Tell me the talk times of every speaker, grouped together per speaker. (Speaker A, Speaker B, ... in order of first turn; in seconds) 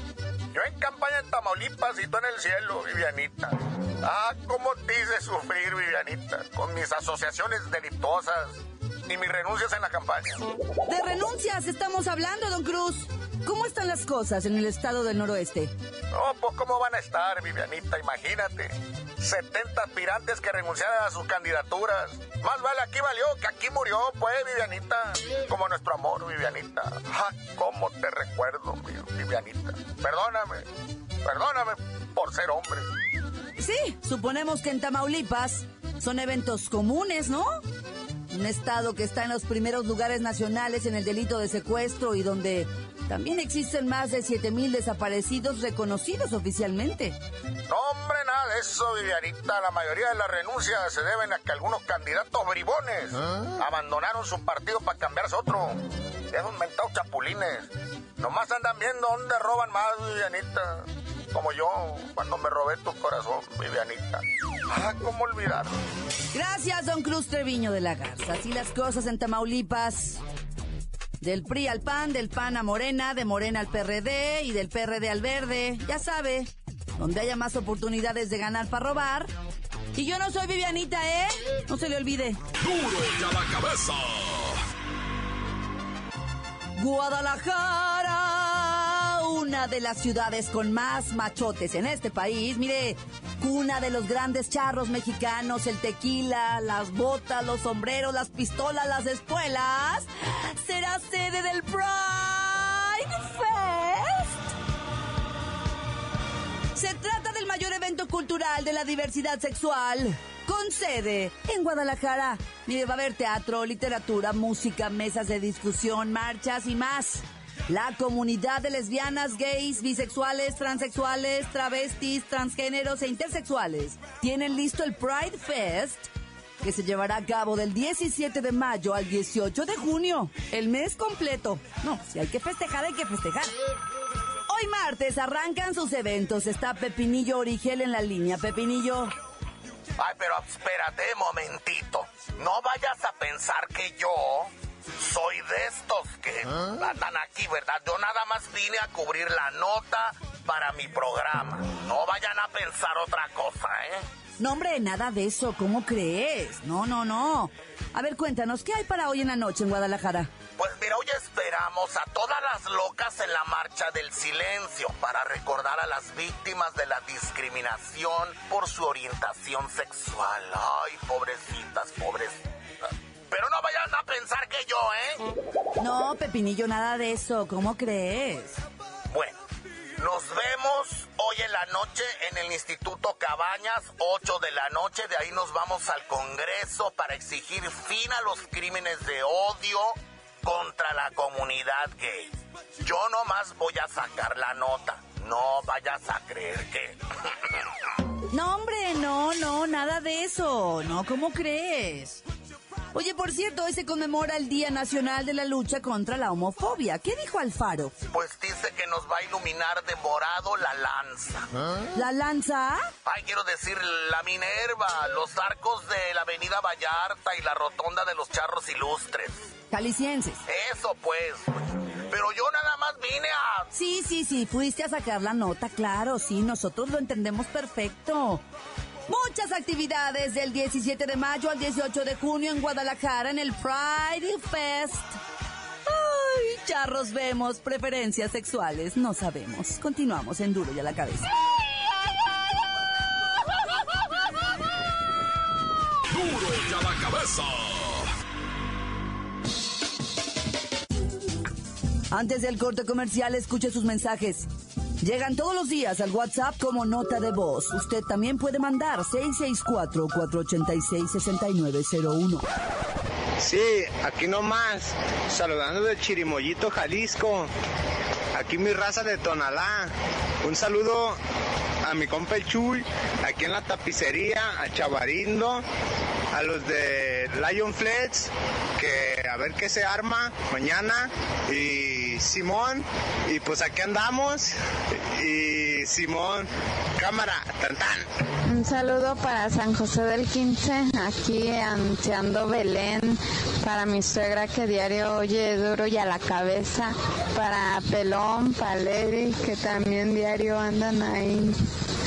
Speaker A: 0.5-10.4, 16.1-30.7, 31.2-32.8, 47.7-65.7, 140.0-154.1, 160.6-172.4, 173.3-175.3, 179.1-179.4, 180.0-197.5, 208.1-211.5, 213.1-219.5, 220.5-223.7
Speaker B: 10.9-15.7, 33.6-37.6, 38.3-47.2, 66.3-70.2, 71.2-79.3, 80.0-82.4, 86.8-104.4, 106.7-126.1, 126.6-133.5, 134.5-139.1, 154.4-160.3, 175.8-178.6, 198.3-202.2, 202.9-207.9, 211.9-212.9, 219.7-220.4, 223.7-228.4, 229.1-235.2, 235.9-241.3, 252.1-254.5, 255.0-262.4
Speaker C: 82.6-84.6, 246.1-248.1
Speaker D: 263.4-267.5, 268.4-269.9, 270.4-271.2, 271.8-275.6, 276.3-288.1
Speaker E: 288.5-301.6